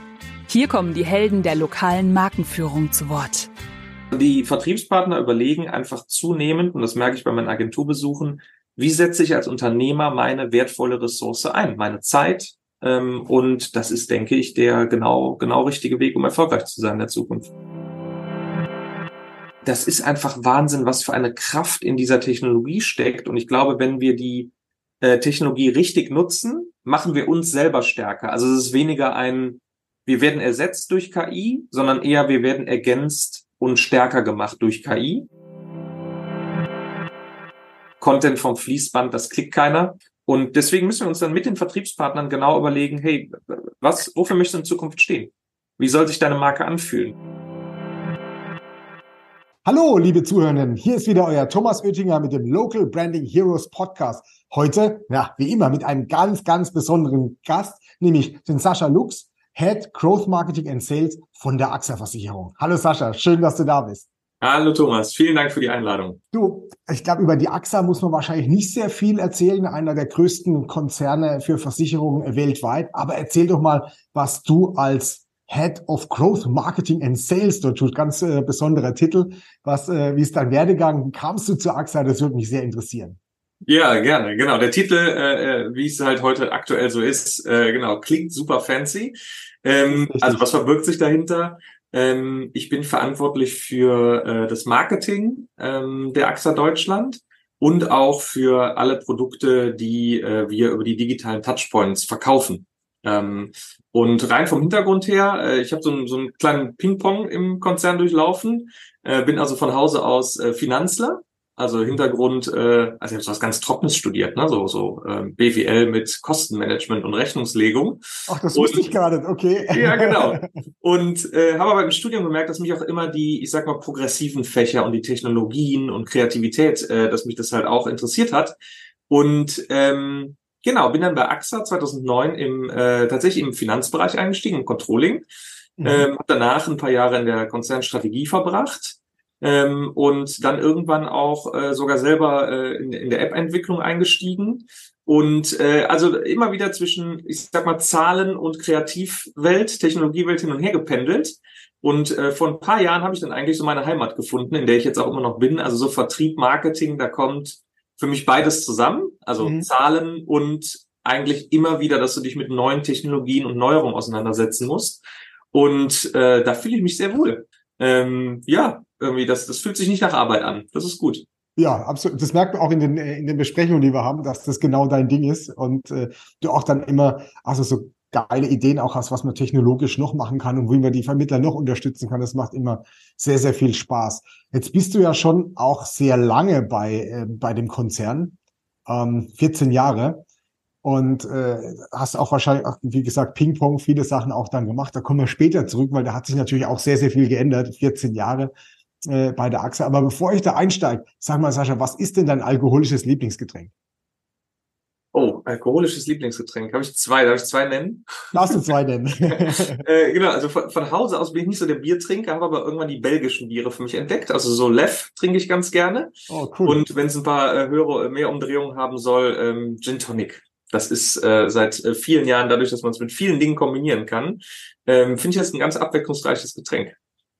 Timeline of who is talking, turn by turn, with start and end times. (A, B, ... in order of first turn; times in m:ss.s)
0:00.5-0:03.5 A
0:04.1-0:17.5 B
0:19.6-0:35.3 B
0:38.0-0:47.1 B
0:49.6-1:04.0 C
1:04.4-1:06.2 B
1:06.3-1:23.2 C
1:23.6-1:58.0 B
1:29.9-1:30.5 C
1:58.3-2:00.5 C
1:58.5-1:58.9 B
1:59.7-2:08.5 B
2:09.1-2:15.2 B
2:15.8-2:16.1 C
2:15.8-2:45.0 B
2:39.4-2:39.7 C
2:45.5-2:51.2 B
2:51.6-3:10.2 C
3:10.8-3:18.5 C
3:19.0-3:23.7 C
3:25.1-3:28.3 B
3:28.3-3:29.8 C
3:29.4-3:36.1 B
3:36.3-3:36.8 C
3:36.6-3:47.0 B